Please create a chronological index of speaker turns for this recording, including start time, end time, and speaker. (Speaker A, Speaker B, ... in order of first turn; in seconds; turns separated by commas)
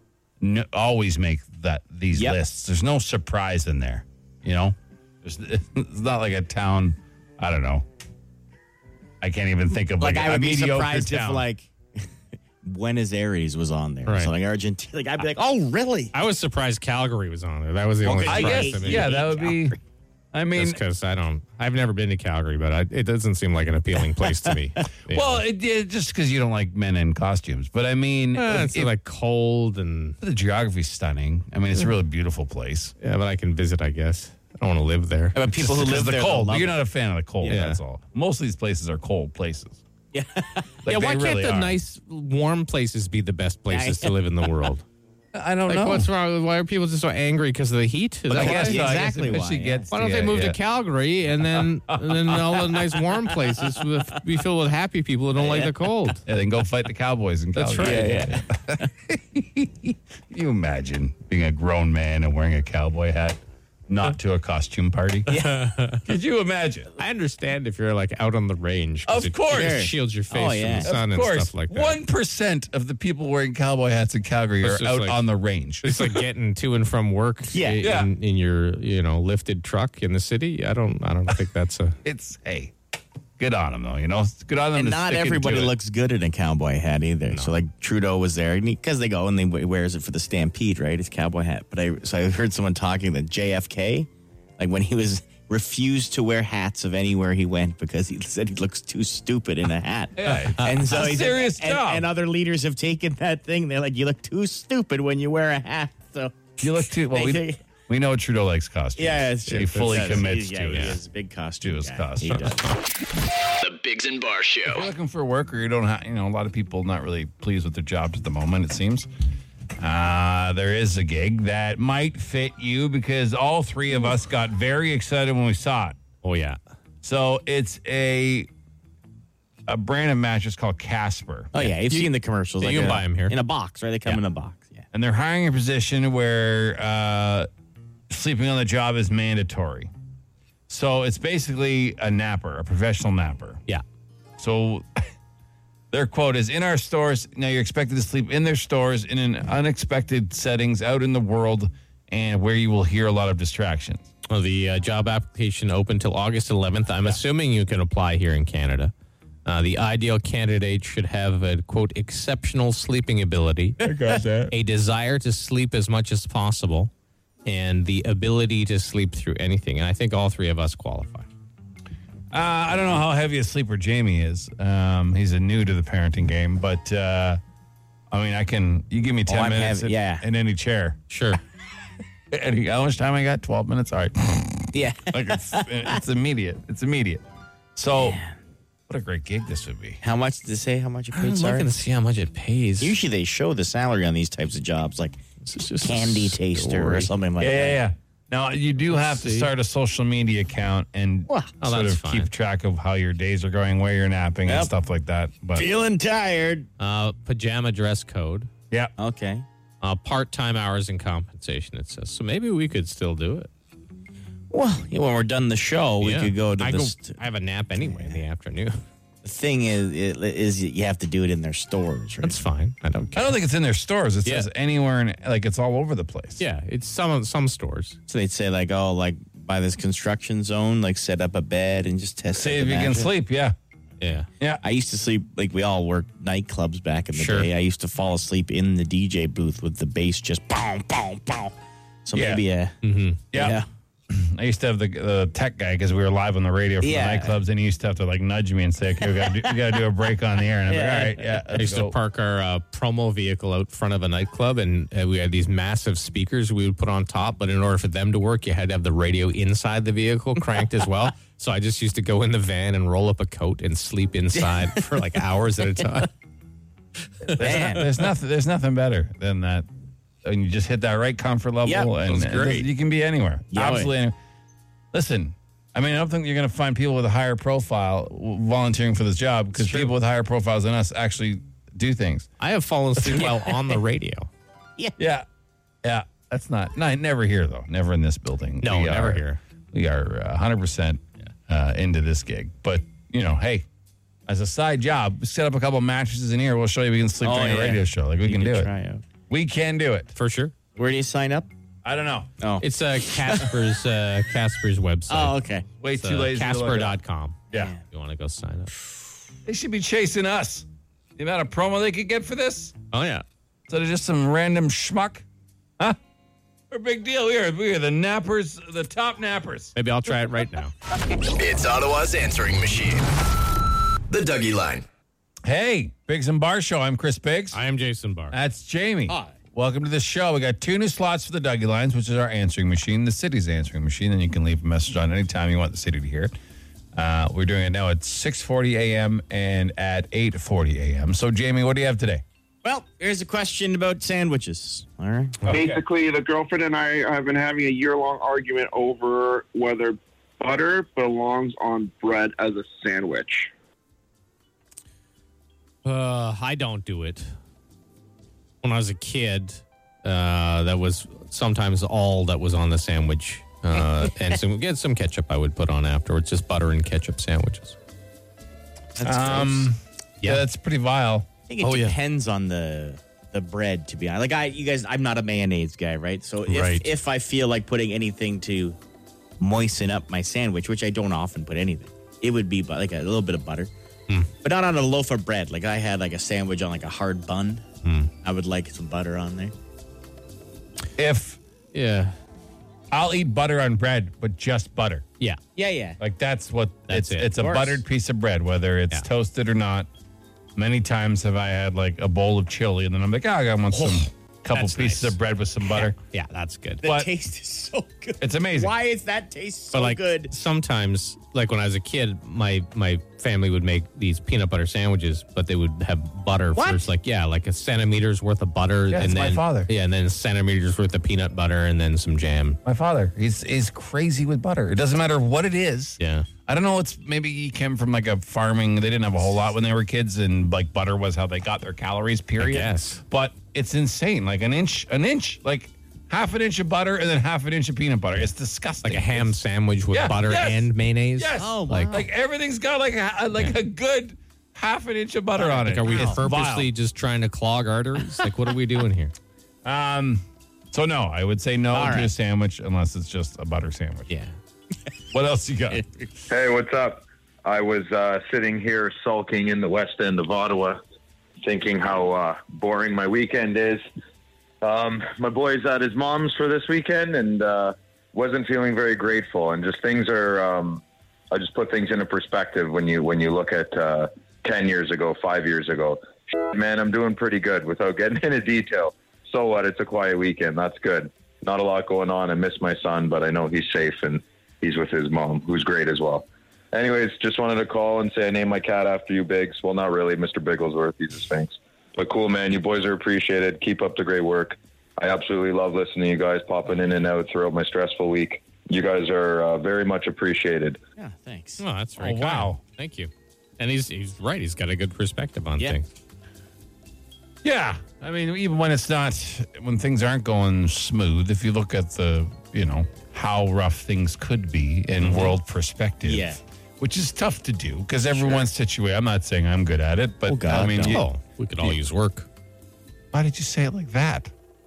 Speaker A: 0.4-7.8, Speaker A: 9.2-11.4, Speaker B: 10.0-12.1, Speaker B: 12.6-16.1, Speaker C: 14.0-14.3, Speaker C: 16.1-19.2, Speaker B: 18.0-19.8, Speaker A: 18.3-19.8, Speaker A: 20.3-20.8, Speaker C: 20.5-25.4, Speaker A: 25.1-28.9, Speaker C: 28.3-30.2, Speaker A: 30.2-32.9, Speaker C: 33.0-35.4, Speaker B: 35.3-36.8, Speaker A: 35.5-39.8, Speaker C: 37.4-37.8, Speaker B: 40.1-40.7, Speaker A: 40.8-41.8, Speaker C: 40.9-44.8, Speaker B: 43.7-44.6, Speaker A: 45.3-46.1, Speaker C: 45.7-49.0, Speaker B: 48.3-49.9, Speaker A: 48.3-50.6, Speaker C: 49.9-56.2, Speaker A: 51.4-53.4, Speaker B: 55.4-55.7, Speaker A: 56.2-65.3, Speaker C: 57.5-58.3, Speaker B: 57.8-58.4, Speaker C: 65.3-66.0, Speaker B: 65.3-65.6, Speaker A: 66.0-66.9, Speaker C: 67.0-72.0, Speaker A: 69.0-69.9, Speaker B: 69.5-70.9, Speaker A: 70.8-76.2, Speaker C: 74.6-75.2, Speaker C: 75.8-82.0, Speaker B: 77.5-77.8, Speaker A: 77.8-78.1, Speaker A: 82.0-82.7, Speaker A: 83.4-85.7, Speaker B: 84.7-106.4, Speaker C: 87.3-87.5, Speaker A: 100.2-102.1, Speaker C: 100.2-100.9, Speaker A: 106.6-111.0, Speaker B: 107.1-107.6, Speaker B: 109.0-112.6, Speaker C: 109.5-111.0, Speaker A: 111.6-112.5, Speaker C: 112.2-112.8, Speaker D: 113.6-114.9, Speaker A: 114.7-119.1, Speaker A: 119.8-126.0, Speaker C: 126.2-126.6, Speaker A: 127.0-128.5, Speaker A: 129.7-131.5, Speaker B: 131.5-134.8, Speaker C: 131.6-133.4, Speaker A: 134.9-137.5, Speaker A: 138.1-139.9, Speaker A: 140.7-143.6, Speaker A: 144.4-145.0, Speaker A: 145.9-154.1, Speaker C: 154.3-158.9, Speaker C: 159.4-163.8, Speaker A: 163.8-164.5, Speaker C: 164.5-166.9, Speaker C: 167.4-171.3, Speaker A: 172.3-177.4, Speaker A: 178.1-181.0, Speaker B: 179.3-180.2, Speaker C: 181.1-181.4, Speaker A: 182.3-187.2, Speaker B: 184.7-186.0, Speaker A: 187.7-188.2, Speaker B: 187.9-188.3, Speaker A: 188.9-190.0, Speaker B: 190.0-191.8, Speaker C: 191.1-193.0, Speaker B: 192.8-195.2, Speaker C: 195.4-197.1, Speaker B: 195.8-197.8, Speaker A: 197.4-205.7, Speaker C: 198.9-199.5, Speaker C: 201.6-202.3, Speaker B: 204.4-204.7, Speaker B: 205.5-206.7, Speaker C: 206.8-208.5, Speaker B: 209.0-209.4, Speaker C: 209.8-213.5, Speaker B: 214.5-217.2, Speaker C: 216.0-218.8, Speaker B: 217.7-218.2, Speaker B: 219.2-222.4, Speaker C: 222.2-223.4, Speaker A: 223.1-226.4, Speaker C: 226.4-228.0, Speaker B: 228.1-233.1, Speaker A: 232.3-233.5, Speaker C: 234.0-234.3, Speaker B: 234.6-241.5, Speaker C: 237.1-237.5, Speaker B: 242.0-242.8, Speaker A: 242.1-242.4, Speaker C: 242.8-243.2, Speaker A: 243.3-252.0, Speaker B: 243.3-243.7, Speaker B: 246.8-247.4, Speaker B: 249.2-249.5, Speaker B: 250.7-251.4, Speaker C: 251.5-266.1, Speaker C: 267.2-267.7, Speaker A: 267.3-269.7, Speaker B: 267.4-267.9, Speaker A: 270.2-274.1, Speaker B: 271.6-272.6, Speaker C: 272.1-272.6, Speaker B: 273.5-273.9, Speaker A: 274.9-282.3, Speaker B: 279.6-279.9, Speaker C: 282.4-284.3, Speaker A: 283.0-283.3, Speaker A: 285.0-285.2, Speaker A: 285.8-293.6, Speaker C: 288.6-289.4, Speaker A: 294.3-298.7, Speaker B: 297.2-299.0, Speaker A: 299.3-300.1, Speaker C: 300.1-300.5, Speaker B: 300.8-301.5, Speaker A: 301.8-302.3, Speaker B: 302.4-303.5, Speaker C: 302.6-305.4, Speaker B: 305.1-305.7, Speaker A: 305.8-307.0, Speaker C: 306.0-308.7, Speaker B: 307.5-307.8, Speaker A: 309.4-312.7, Speaker C: 312.9-313.2, Speaker A: 313.7-315.2, Speaker A: 316.7-319.7, Speaker C: 319.7-320.7, Speaker D: 321.3-323.0, Speaker D: 324.1-324.9, Speaker A: 325.4-327.6, Speaker C: 327.5-328.4, Speaker A: 328.3-336.3, Speaker A: 336.9-342.2, Speaker B: 342.6-345.4, Speaker A: 345.5-345.8, Speaker E: 345.5-353.5, Speaker C: 355.8-357.3, Speaker C: 358.6-367.8, Speaker A: 368.9-371.3, Speaker B: 369.0-369.7, Speaker B: 371.5-378.8, Speaker C: 371.6-371.9, Speaker C: 376.5-376.9, Speaker B: 379.4-383.7, Speaker B: 384.4-387.6, Speaker C: 387.8-388.1, Speaker B: 388.2-389.5, Speaker A: 390.9-391.4, Speaker C: 391.7-392.1, Speaker A: 392.9-395.1, Speaker B: 395.6-396.0, Speaker A: 396.0-399.9, Speaker C: 396.9-397.3, Speaker B: 397.4-397.8, Speaker A: 400.6-406.0, Speaker C: 404.5-405.1, Speaker C: 406.1-406.8, Speaker B: 406.8-410.3, Speaker A: 406.8-407.1, Speaker A: 408.2-408.7, Speaker C: 409.7-422.6, Speaker B: 416.5-416.9, Speaker A: 418.9-419.7, Speaker A: 422.6-439.4, Speaker C: 426.0-426.3, Speaker C: 432.4-433.0, Speaker C: 438.8-441.9, Speaker A: 439.9-446.7, Speaker B: 441.3-442.1, Speaker B: 445.4-446.2, Speaker C: 445.5-449.1, Speaker A: 449.6-454.1, Speaker B: 451.7-452.1, Speaker C: 454.1-454.3, Speaker A: 455.1-455.8, Speaker F: 456.3-460.8, Speaker F: 461.4-463.8, Speaker F: 464.6-500.8, Speaker B: 501.0-501.6, Speaker C: 501.6-505.9, Speaker A: 502.0-502.6, Speaker A: 507.4-521.0, Speaker C: 515.0-515.3, Speaker B: 516.0-516.4, Speaker B: 518.1-518.5, Speaker B: 520.2-521.0, Speaker C: 520.5-522.3, Speaker A: 523.1-524.3